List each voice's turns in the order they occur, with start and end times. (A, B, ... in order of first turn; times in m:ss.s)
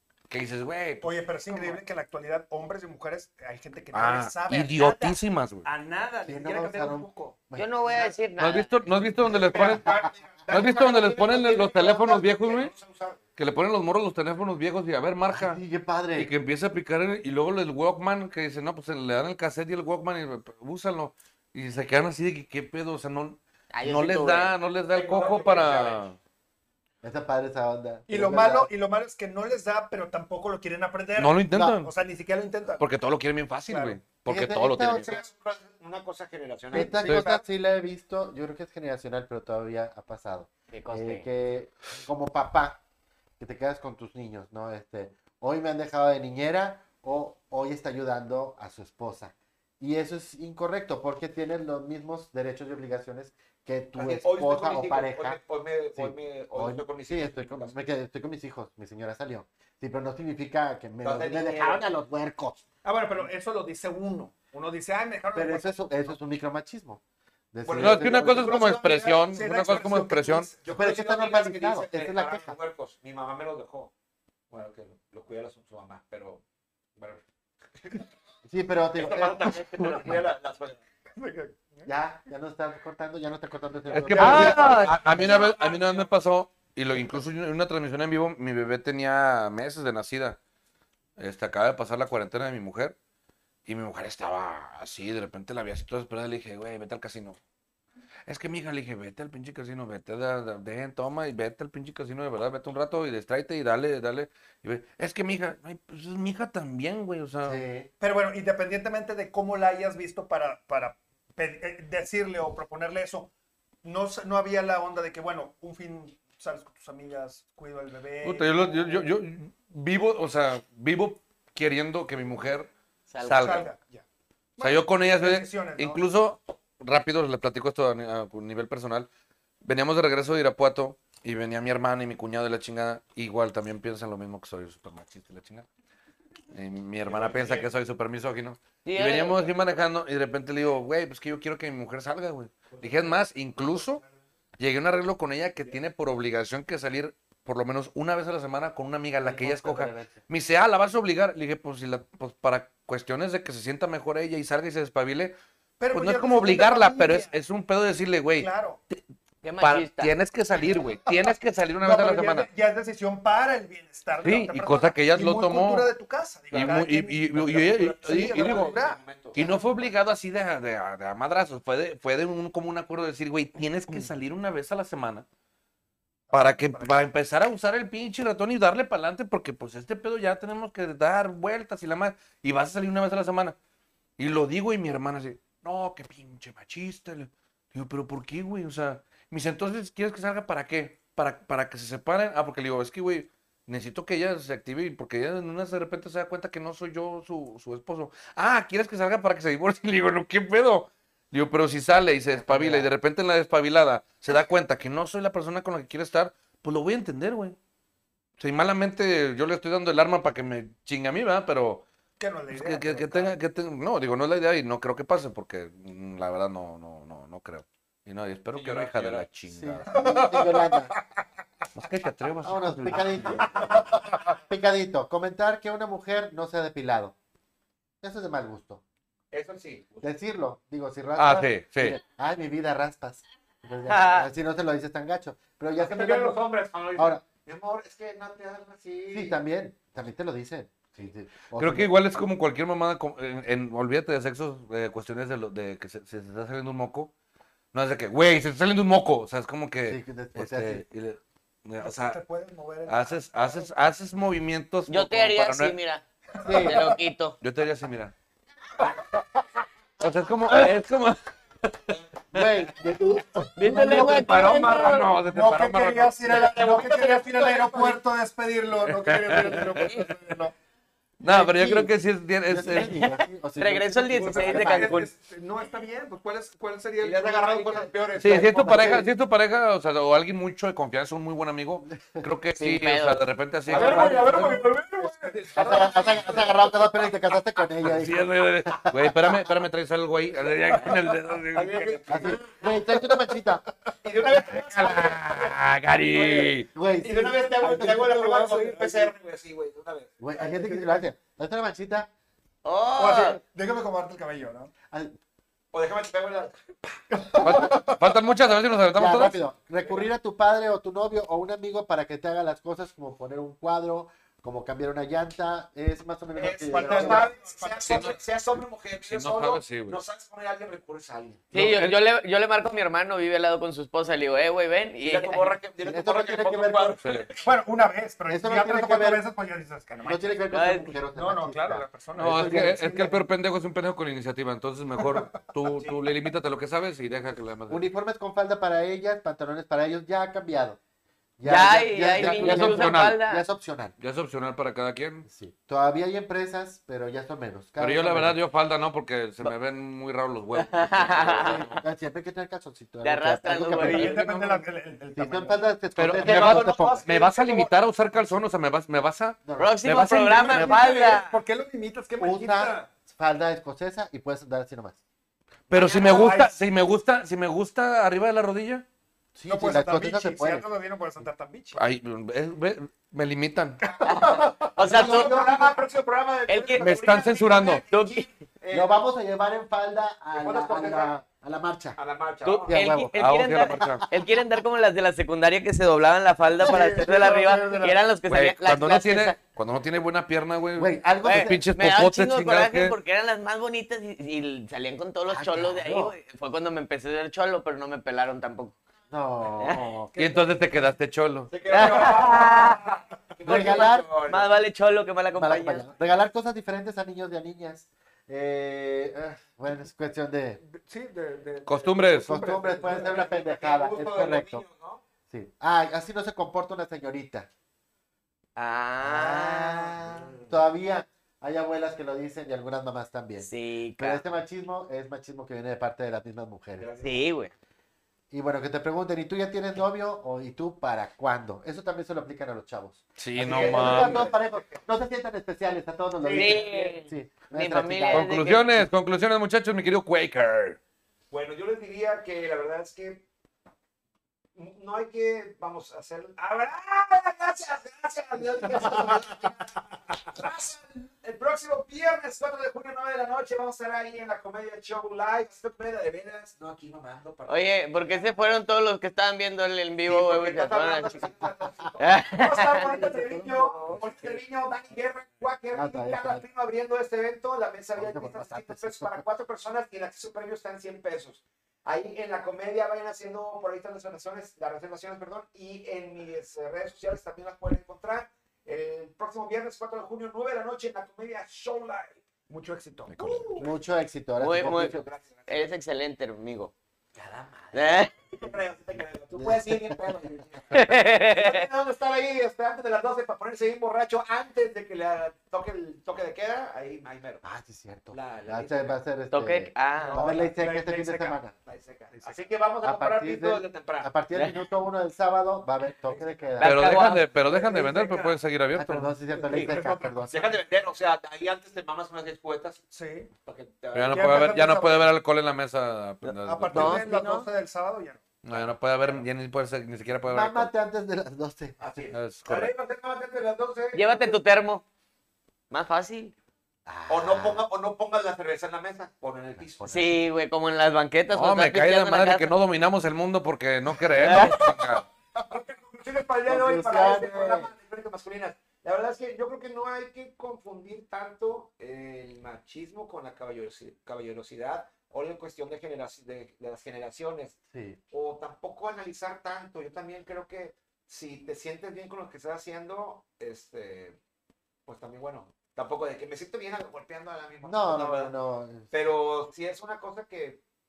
0:00.3-0:01.1 A
0:01.0-0:07.4 B
0:03.9-0:05.7 A
0:06.2-0:07.7 C
0:07.6-0:08.7 D
0:08.4-0:09.9 A
0:09.2-0:13.2 E
0:10.5-0:12.7 A
0:13.4-0:15.6 A
0:15.3-0:16.3 C
0:16.1-0:26.2 A
0:23.7-0:24.5 D
0:24.9-0:26.1 E
0:27.0-0:28.7 C
0:28.1-0:32.8 B
0:31.2-0:31.9 A
0:32.8-0:35.2 A
0:33.7-0:34.0 B
0:34.2-0:35.2 C
0:34.9-0:37.1 E
0:36.7-0:42.8 C
0:36.7-0:37.4 B
0:37.0-0:37.3 A
0:40.7-0:41.3 D
0:43.4-0:55.4 C
0:53.9-0:57.7 E
0:56.0-1:02.6 C
1:01.0-1:01.8 E
1:02.8-1:06.1 B
1:05.3-1:07.0 C
1:07.5-1:08.6 C
1:07.6-1:09.1 E
1:07.8-1:10.5 A
1:08.5-1:10.6 B
1:10.6-1:13.9 E
1:10.7-1:12.5 C
1:14.5-1:16.4 E
1:17.0-1:17.2 E
1:17.8-1:18.0 E
1:18.4-1:20.2 C
1:19.0-1:20.8 E
1:21.2-1:21.9 B
1:21.8-1:25.3 C
1:23.9-1:30.4 A
1:24.0-1:25.1 B
1:24.3-1:26.0 E
1:31.2-1:33.0 A
1:33.6-1:37.4 A
1:38.3-1:47.6 A
1:47.4-1:47.9 C
1:48.0-1:53.3 B
1:53.8-1:59.1 B
1:58.2-2:02.7 A
2:03.1-2:03.6 D
2:03.2-2:03.7 A
2:03.3-2:04.0 B
2:04.6-2:06.0 B
2:04.6-2:09.1 A
2:09.6-2:15.6 A
2:16.5-2:24.0 A
2:17.0-2:17.7 E
2:18.8-2:19.5 D
2:22.7-2:24.1 E
2:24.6-2:35.4 A
2:29.2-2:30.2 C
2:35.8-2:37.3 B
2:35.9-2:39.0 A
2:38.4-2:38.8 B
2:39.4-2:40.1 D
2:39.6-2:42.5 A
2:41.8-2:49.6 B
2:44.2-2:45.9 A
2:46.5-2:48.7 A
2:48.0-2:49.8 E
2:49.3-2:55.2 A
2:56.3-2:57.0 B
2:56.3-3:03.6 A
3:04.2-3:27.6 A
3:22.3-3:22.9 C
3:28.4-3:31.8 A
3:32.2-3:33.3 B
3:32.5-3:40.1 A
3:38.5-3:39.3 E
3:39.5-3:40.9 C
3:39.9-3:40.8 B
3:41.7-3:43.5 A
3:42.4-3:47.1 C
3:48.0-3:48.8 C
3:49.3-3:50.0 E
3:50.0-3:56.4 C
3:51.2-3:52.0 A
3:53.9-3:54.3 D
3:55.8-3:59.4 E
3:57.0-3:57.2 C
3:59.1-4:01.9 C
4:01.6-4:07.1 A
4:07.7-4:12.2 A
4:09.8-4:10.8 C
4:11.8-4:13.6 B
4:12.8-4:15.8 A
4:14.9-4:16.0 D
4:16.4-4:16.9 B
4:16.4-4:16.9 C
4:16.5-4:17.4 D
4:17.4-4:18.1 A
4:20.0-4:21.2 A
4:22.3-4:24.2 C
4:23.6-4:25.1 D
4:23.6-4:30.5 B
4:23.7-4:26.3 A
4:26.3-4:28.0 E
4:28.9-4:30.1 A
4:31.2-4:33.0 A
4:31.2-4:31.9 C
4:32.4-4:35.0 C
4:32.9-4:35.1 D
4:34.1-4:37.9 B
4:37.0-4:39.0 E
4:38.2-4:44.6 A
4:38.6-4:39.1 C
4:42.5-4:43.2 D
4:43.7-4:46.7 E
4:43.7-4:46.2 B
4:45.6-4:49.4 C
4:47.8-4:52.3 A
4:51.5-4:52.7 E
4:52.1-4:53.6 C
4:54.0-4:55.5 E
4:54.3-4:56.7 A
4:56.1-5:00.2 E
4:56.7-4:58.2 C
4:57.6-4:59.1 B
5:00.2-5:02.1 C
5:00.5-5:01.0 B
5:02.6-5:03.4 D
5:03.0-5:04.7 B
5:04.9-5:05.2 C
5:05.7-5:07.0 E
5:07.1-5:08.0 B
5:07.4-5:09.4 A
5:08.9-5:17.3 C
5:16.3-5:21.5 E
5:16.7-5:18.2 B
5:17.8-5:18.2 A
5:18.9-5:20.0 A
5:21.5-5:22.0 A
5:21.5-5:25.6 D
5:25.0-5:27.5 E
5:25.8-5:27.0 C
5:27.0-5:27.3 A
5:27.4-5:30.4 B
5:28.3-5:29.2 C
5:30.0-5:33.1 C
5:30.5-5:30.9 D
5:31.1-5:33.2 B
5:32.2-5:37.8 A
5:35.2-5:35.9 B
5:37.7-5:40.8 C
5:41.4-5:43.9 C
5:41.4-5:43.4 D
5:42.1-5:43.2 A
5:44.0-5:45.2 A
5:45.2-5:48.4 C
5:47.8-5:51.7 A
5:50.6-5:51.7 D
5:51.4-5:54.5 C
5:53.0-5:54.3 D
5:53.8-5:55.6 B
5:55.1-5:57.0 C
5:56.0-6:00.7 A
5:56.0-5:57.7 E
5:59.4-5:59.8 C
5:59.6-6:01.4 D
6:00.0-6:02.9 B
6:00.5-6:00.8 C
6:02.2-6:05.0 C
6:05.7-6:08.8 A
6:05.7-6:06.4 E
6:05.8-6:06.6 B
6:09.3-6:10.6 C
6:09.5-6:11.8 B
6:11.7-6:13.8 A
6:13.8-6:15.8 B
6:14.0-6:15.4 D
6:14.8-6:19.0 E
6:16.5-6:16.9 D
6:16.8-6:17.8 A
6:17.8-6:18.3 D
6:18.7-6:22.0 C
6:20.3-6:21.1 E
6:22.0-6:22.9 E
6:22.4-6:29.4 D
6:22.7-6:24.1 C
6:23.2-6:24.0 A
6:26.6-6:28.0 B
6:28.3-6:32.9 A
6:30.8-6:31.6 C
6:31.2-6:38.8 D
6:35.3-6:36.1 C
6:39.1-6:40.9 C
6:40.2-6:41.5 A
6:41.5-6:44.5 E
6:41.7-6:42.8 D
6:42.0-6:42.4 B
6:43.4-6:44.1 C
6:43.4-6:45.8 D
6:45.3-6:50.6 C
6:50.6-6:53.2 B
6:51.6-6:52.4 A
6:52.2-6:54.6 C
6:52.8-6:55.0 E
6:55.3-6:57.5 C
6:58.6-7:00.2 D
6:59.0-7:06.9 C
7:03.4-7:04.2 D
7:06.8-7:07.3 E
7:07.0-7:07.5 D
7:08.3-7:18.4 C
7:13.2-7:14.3 A
7:13.4-7:14.8 E
7:16.2-7:16.8 E
7:16.3-7:18.8 D
7:18.1-7:20.8 A
7:21.3-7:23.2 E
7:24.5-7:38.6 E
7:37.5-7:41.3 D
7:40.0-8:02.2 E
7:42.0-7:42.9 D
7:42.8-7:43.4 B
7:42.9-7:44.0 C
7:45.7-7:46.4 C
7:48.0-7:49.2 C
8:02.5-8:03.7 B
8:03.1-8:03.7 A
8:03.6-8:05.0 C
8:04.4-8:05.0 D
8:04.5-8:05.7 E
8:05.5-8:06.7 D
8:07.1-8:17.4 E
8:07.7-8:08.1 D
8:09.4-8:09.9 C
8:10.7-8:11.7 D
8:17.4-8:21.5 C
8:18.1-8:19.0 E
8:19.3-8:20.2 D
8:20.0-8:24.1 E
8:20.1-8:20.7 B
8:22.8-8:26.9 C
8:26.6-8:27.2 D
8:26.6-8:29.1 A
8:27.4-8:28.4 B
8:28.7-8:30.6 C
8:29.3-8:30.2 B
8:30.3-8:32.8 E
8:32.9-8:33.3 B
8:33.4-8:34.6 E
8:33.9-8:37.1 A
8:34.1-8:35.1 B
8:36.2-8:37.5 D
8:36.4-8:38.2 B
8:38.4-8:40.7 A
8:40.3-8:41.8 C
8:41.8-8:44.4 E
8:42.1-8:42.7 A
8:43.9-8:44.8 D
8:45.7-8:46.3 D
8:46.8-8:47.6 C
8:47.1-8:50.2 E
8:49.8-8:50.1 C
8:49.8-8:52.5 D
8:51.3-8:55.0 A
8:54.2-8:54.6 D
8:55.4-9:07.6 E
8:56.4-8:57.7 C
9:07.7-9:08.0 C
9:08.1-9:14.2 E
9:14.8-9:18.3 E
9:17.6-9:18.9 C
9:18.9-9:20.6 E